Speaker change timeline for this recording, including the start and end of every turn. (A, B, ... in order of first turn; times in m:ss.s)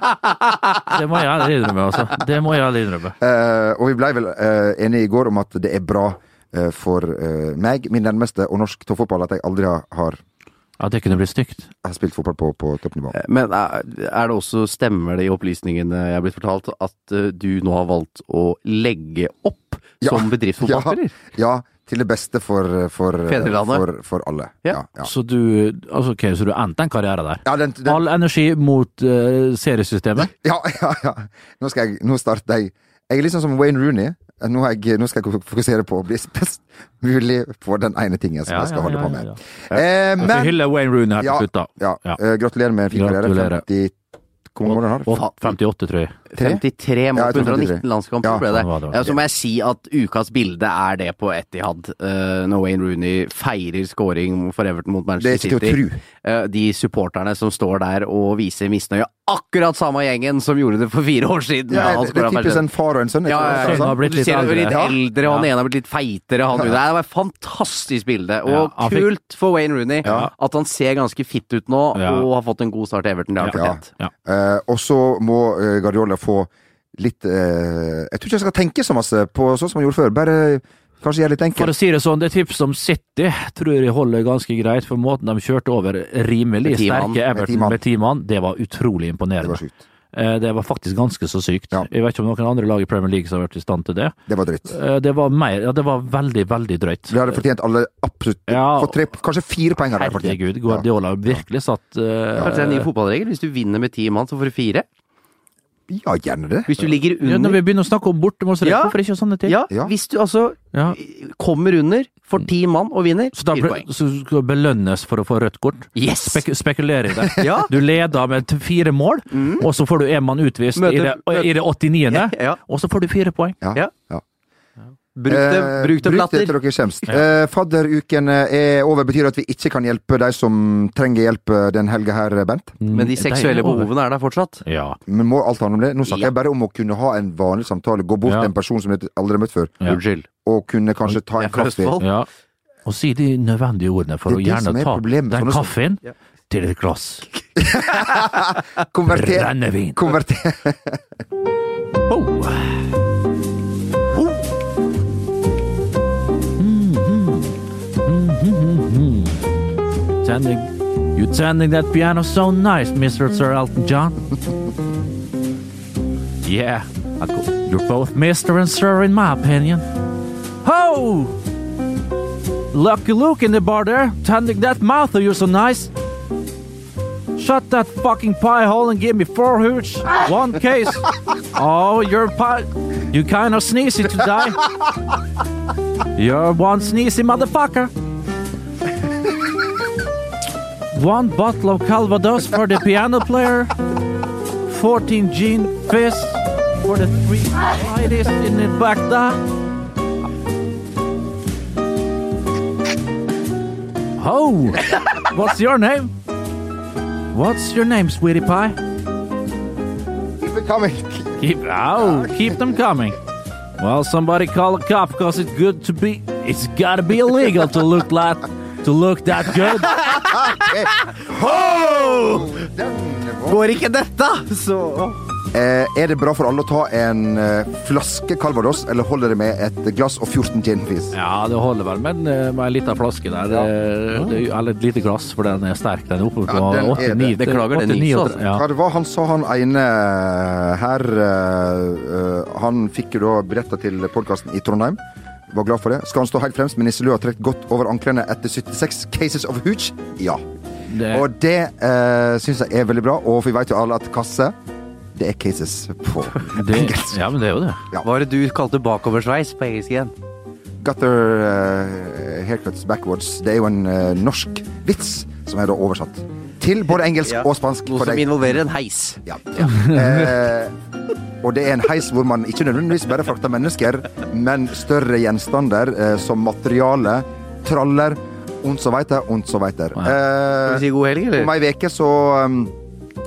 0:00.9-0:03.2 A
0:03.2-0:10.2 B
0:10.8-0:11.7 A
0:11.8-0:13.2 B
0:13.1-0:21.2 C
0:20.0-0:25.1 B
0:23.2-0:23.9 C
0:25.0-0:30.3 A
0:27.4-0:28.0 B
0:30.2-0:40.6 B
0:38.5-0:42.2 A
0:41.2-0:43.9 B
0:42.9-0:43.6 A
0:44.5-0:45.3 B
0:44.6-0:46.2 A
0:46.3-1:02.6 C
0:46.4-0:46.6 B
0:47.1-0:48.5 B
0:48.4-0:49.1 A
0:55.2-0:56.0 B
1:01.7-1:04.0 B
1:03.2-1:13.9 C
1:03.4-1:05.5 A
1:04.7-1:05.0 B
1:08.4-1:09.1 A
1:10.0-1:10.3 B
1:10.0-1:10.3 A
1:11.9-1:12.2 A
1:13.4-1:14.1 A
1:13.5-1:21.7 B
1:21.5-1:29.6 A
1:26.6-1:27.2 C
1:27.3-1:27.8 B
1:29.4-1:29.8 B
1:30.1-1:34.1 A
1:34.3-1:34.8 B
1:34.6-1:37.3 A
1:37.1-1:41.4 B
1:38.5-1:39.0 A
1:39.9-1:42.9 A
1:42.4-1:44.8 C
1:45.9-1:46.8 B
1:46.7-1:47.6 C
1:47.2-1:49.6 A
1:48.6-1:48.9 C
1:49.4-1:53.8 C
1:53.3-2:03.6 A
1:55.9-1:56.4 C
1:57.4-1:57.7 C
1:59.3-1:59.6 C
2:00.7-2:01.5 C
2:02.1-2:02.6 C
2:03.6-2:04.2 B
2:05.2-2:06.6 C
2:05.3-2:12.8 B
2:12.8-2:13.9 A
2:12.9-2:14.6 C
2:14.6-2:15.0 A
2:15.1-2:19.8 B
2:18.2-2:18.5 A
2:19.8-2:20.3 C
2:20.4-2:22.0 B
2:21.4-2:22.1 C
2:22.0-2:22.3 A
2:22.8-2:27.2 A
2:24.3-2:25.7 B
2:27.6-2:31.0 B
2:29.1-2:30.0 A
2:32.1-2:32.8 A
2:36.6-2:39.4 A
2:40.2-2:44.3 A
2:46.4-2:49.8 A
2:50.6-2:51.4 A
2:52.7-2:55.9 A
2:57.4-3:04.7 A
3:06.1-3:07.9 A
3:10.9-3:13.7 A
3:14.6-3:19.4 A
3:24.2-3:26.1 A
3:27.3-3:28.8 A
3:30.4-3:31.4 B
3:31.4-3:33.2 A
3:32.0-3:32.7 B
3:33.8-3:40.0 A
3:39.9-3:42.6 C
3:40.4-3:43.6 B
3:43.4-3:45.2 C
3:45.5-3:51.1 B
3:51.1-3:58.6 A
3:56.5-3:57.4 B
3:57.4-3:58.4 C
3:58.5-4:10.4 B
4:10.9-4:11.3 A
4:11.0-4:14.5 B
4:15.1-4:17.2 B
4:16.5-4:17.8 A
4:18.0-4:20.1 C
4:20.8-4:28.4 B
4:27.2-4:29.7 C
4:29.2-4:30.7 B
4:29.6-4:30.5 A
4:31.4-4:42.8 B
4:40.5-4:41.5 C